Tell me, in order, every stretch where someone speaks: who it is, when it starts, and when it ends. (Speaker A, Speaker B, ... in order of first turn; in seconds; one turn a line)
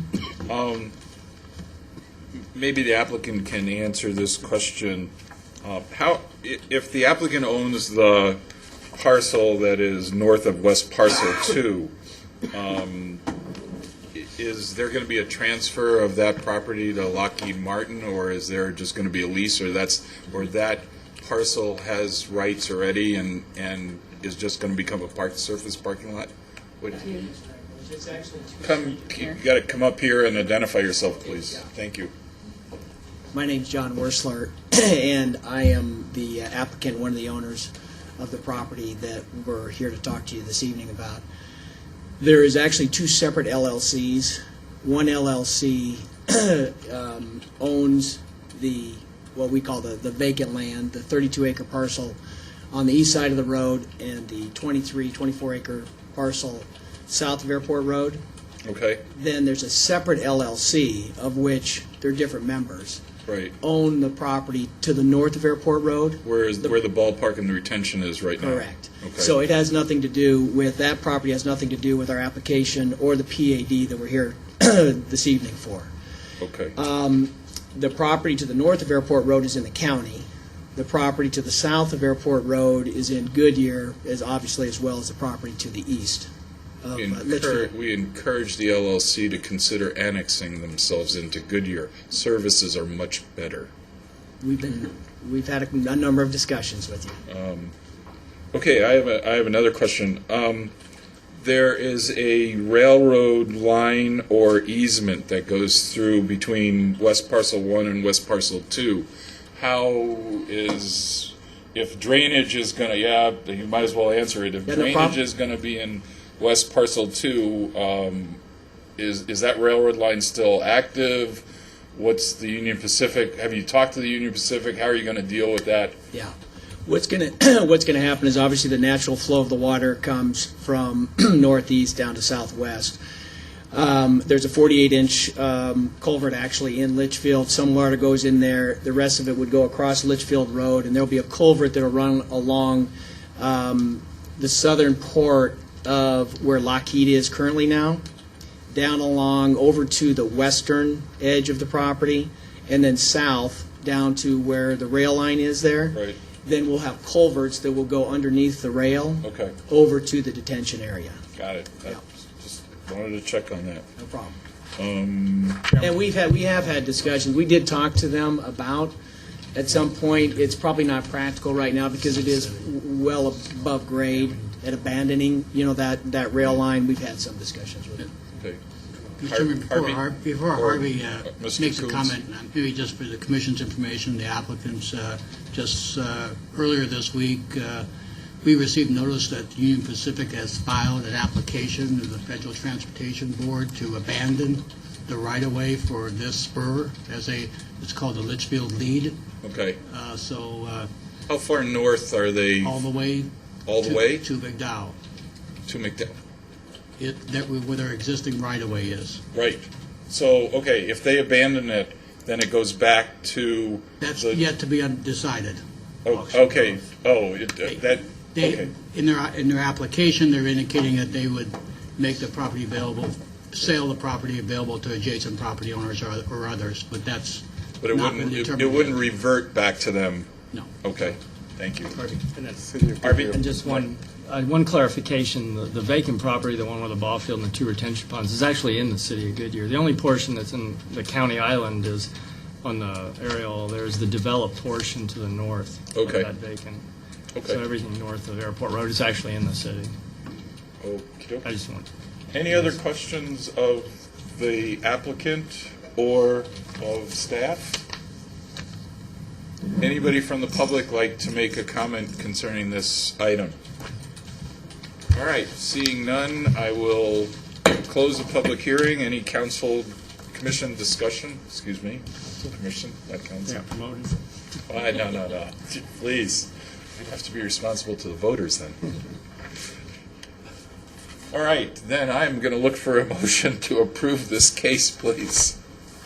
Speaker A: 0.5-0.9
Speaker A: 2.5-5.1
Speaker A: 5.6-8.4
Speaker A: 8.9-11.9
Speaker A: 12.5-13.2
Speaker A: 14.1-27.3
Speaker B: 27.6-28.6
Speaker A: 28.6-32.1
Speaker B: 33.3-41.2
Speaker B: 42.2-52.2
Speaker B: 52.7-58.2
Speaker A: 58.7-59.0
Speaker B: 59.1-63.0
Speaker A: 63.3-63.5
Speaker B: 63.6-66.8
Speaker A: 66.2-69.3
Speaker B: 68.4-75.9
Speaker A: 76.4-76.8
Speaker B: 76.8-86.3
Speaker B: 86.8-87.7
Speaker A: 87.0-93.7
Speaker B: 94.4-97.2
Speaker A: 97.3-97.7
Speaker A: 98.5-100.7
Speaker A: 101.4-118.4
Speaker B: 114.7-115.2
Speaker A: 119.0-121.4
Speaker A: 122.0-126.0
Speaker B: 126.9-133.0
Speaker B: 133.7-148.0
Speaker B: 148.7-161.2
Speaker A: 155.9-156.2
Speaker A: 159.2-159.6
Speaker A: 161.4-163.9
Speaker B: 164.0-164.4
Speaker A: 164.8-165.9
Speaker B: 165.8-169.0
Speaker B: 169.5-178.1
Speaker C: 179.2-187.9
Speaker A: 179.2-180.0
Speaker A: 180.6-182.2
Speaker C: 188.4-199.2
Speaker A: 199.4-199.8
Speaker C: 199.8-200.9
Speaker A: 201.3-202.8
Speaker C: 202.6-203.3
Speaker A: 203.7-204.2
Speaker C: 203.8-205.0
Speaker A: 205.7-206.2
Speaker C: 207.0-209.2
Speaker A: 209.3-214.4
Speaker C: 214.0-215.6
Speaker A: 216.1-218.7
Speaker C: 218.3-229.1
Speaker A: 227.8-232.0
Speaker D: 232.0-232.5
Speaker A: 233.0-233.9
Speaker D: 233.3-242.1
Speaker D: 242.6-246.8
Speaker A: 245.9-246.3
Speaker A: 247.3-247.6
Speaker D: 247.4-249.9
Speaker A: 250.8-251.5
Speaker D: 251.4-251.9
Speaker A: 252.3-257.8
Speaker A: 259.8-263.6
Speaker A: 265.1-273.6
Speaker D: 273.5-274.1
Speaker A: 274.7-278.8
Speaker A: 281.3-285.6